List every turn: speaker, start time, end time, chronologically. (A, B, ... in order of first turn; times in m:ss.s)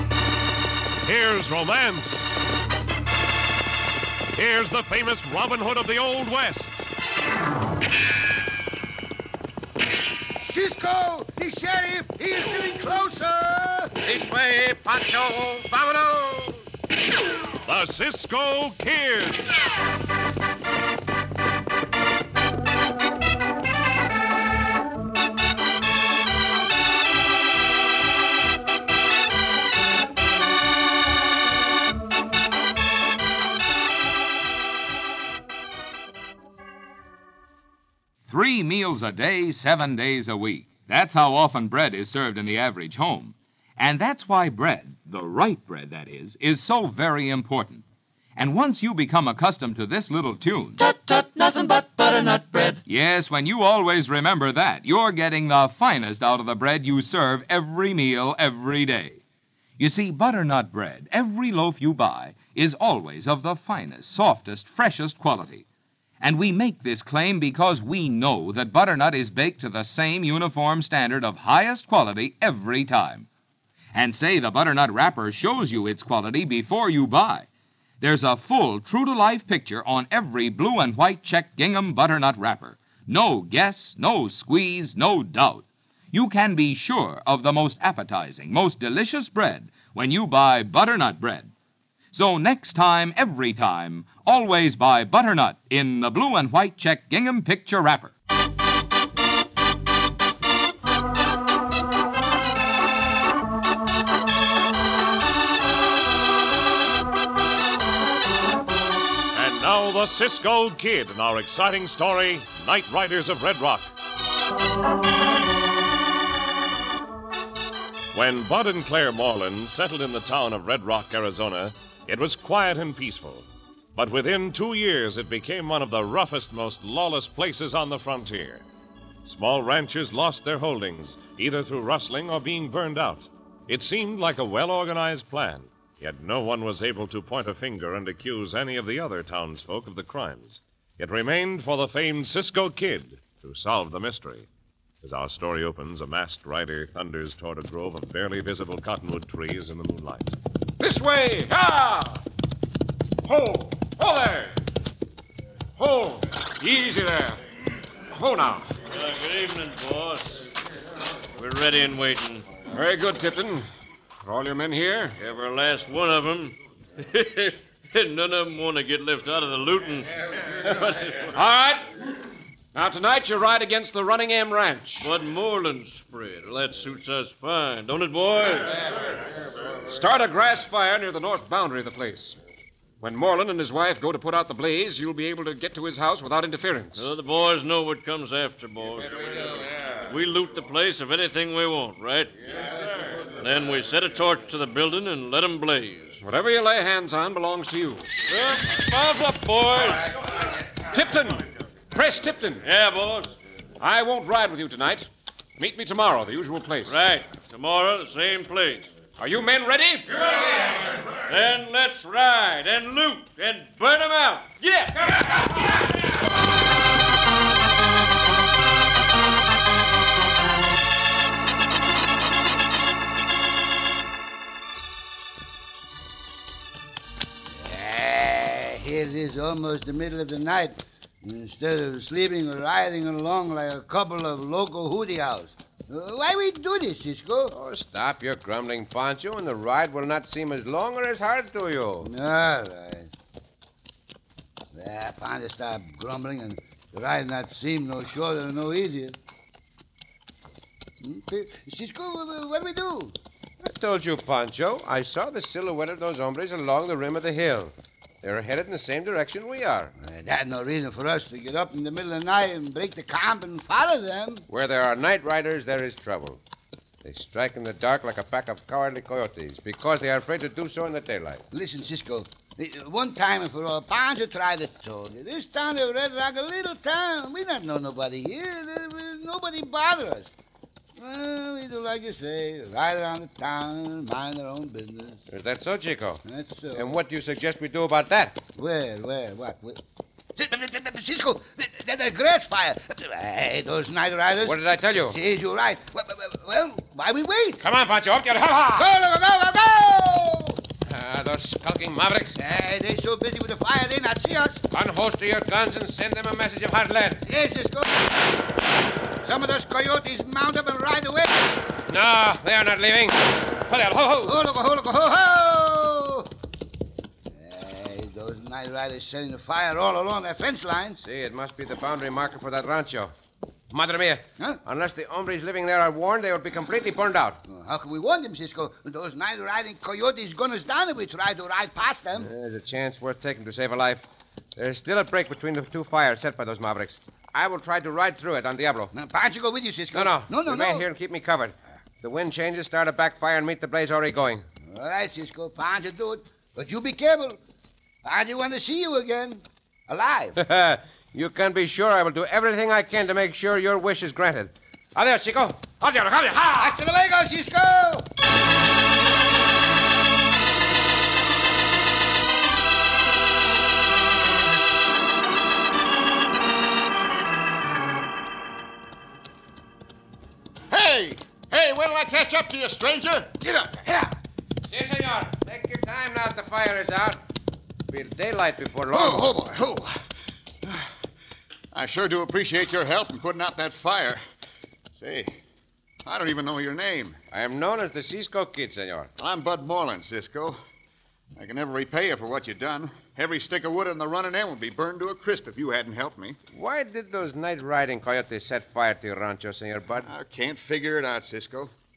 0:01.0-0:02.4 A
0:04.3-0:06.9 A
0:10.4-0:13.9 B
0:14.0-0:16.6 C
0:17.6-0:19.5 A
0:38.2-0:47.8 D
0:48.4-0:50.8 D
0:50.8-0:52.8 E
0:52.8-0:59.2 D
0:59.8-1:05.6 D
1:06.2-1:13.3 D
1:13.9-1:17.5 D
1:18.0-1:31.5 D
1:32.1-1:38.1 D
1:49.3-1:53.9 A
1:58.1-2:08.6 A
2:09.2-2:24.5 A
2:25.0-2:30.4 A
2:30.8-2:32.2 F
2:33.2-2:34.6 F
2:35.8-2:37.4 F
2:38.1-2:38.8 F
2:38.9-2:40.4 G
2:41.4-2:42.5 G
2:42.6-2:43.7 F
2:44.2-2:45.2 F
2:45.2-2:51.3 G
2:51.2-2:51.9 F
2:52.7-2:55.1 F
2:55.0-2:58.8 G
2:59.7-3:02.4 F
3:03.0-3:07.2 F
3:06.9-3:09.1 G
3:10.0-3:12.8 G
3:13.3-3:16.2 G
3:16.2-3:18.1 F
3:18.3-3:20.1 G
3:20.8-3:22.6 F
3:22.6-3:23.3 G
3:23.8-3:27.0 F
3:26.8-3:28.9 G
3:29.2-3:30.7 F
3:31.2-3:35.1 G
3:47.5-3:57.5 B
3:57.5-4:02.1 C
4:02.0-4:03.1 B
4:04.7-4:09.2 B
4:11.0-4:13.2 B
4:13.6-4:19.9 C
4:20.0-4:24.4 B
4:24.5-4:26.4 C
4:27.0-4:31.4 C
4:31.5-4:40.3 B
4:41.0-4:45.2 B
4:45.3-4:46.2 C
4:46.2-4:47.0 B
4:46.7-4:48.4 C
4:48.6-4:49.8 B
4:50.4-4:54.6 B
4:54.4-4:55.2 C
4:55.1-4:57.6 B
4:57.6-4:58.9 C
4:58.8-5:00.6 B
5:00.8-5:02.4 C
5:02.4-5:04.6 B
5:04.7-5:07.2 C
5:07.2-5:08.1 B
5:09.2-5:11.4 B
5:11.9-5:14.4 C
5:14.2-5:16.3 B
5:17.3-5:21.0 B
5:21.0-5:23.1 C
5:23.7-5:27.4 C
5:27.4-5:32.3 B
5:32.2-5:34.0 C
5:34.6-5:38.9 C
5:38.9-5:40.9 B
5:39.9-5:44.4 C
5:44.6-5:47.4 B
5:48.0-5:50.4 B
5:50.4-5:56.8 C
5:56.6-5:58.1 B
6:10.7-6:14.1 H
6:14.6-6:17.2 C
6:17.9-6:19.4 C
6:18.9-6:20.0 H
6:20.6-6:20.9 H
6:21.7-6:24.2 H
6:24.9-6:25.4 H
6:26.0-6:27.2 H
6:27.3-6:29.1 C
6:29.2-6:30.6 H
6:31.3-6:36.4 H
6:36.5-6:40.1 C
6:40.0-6:41.7 H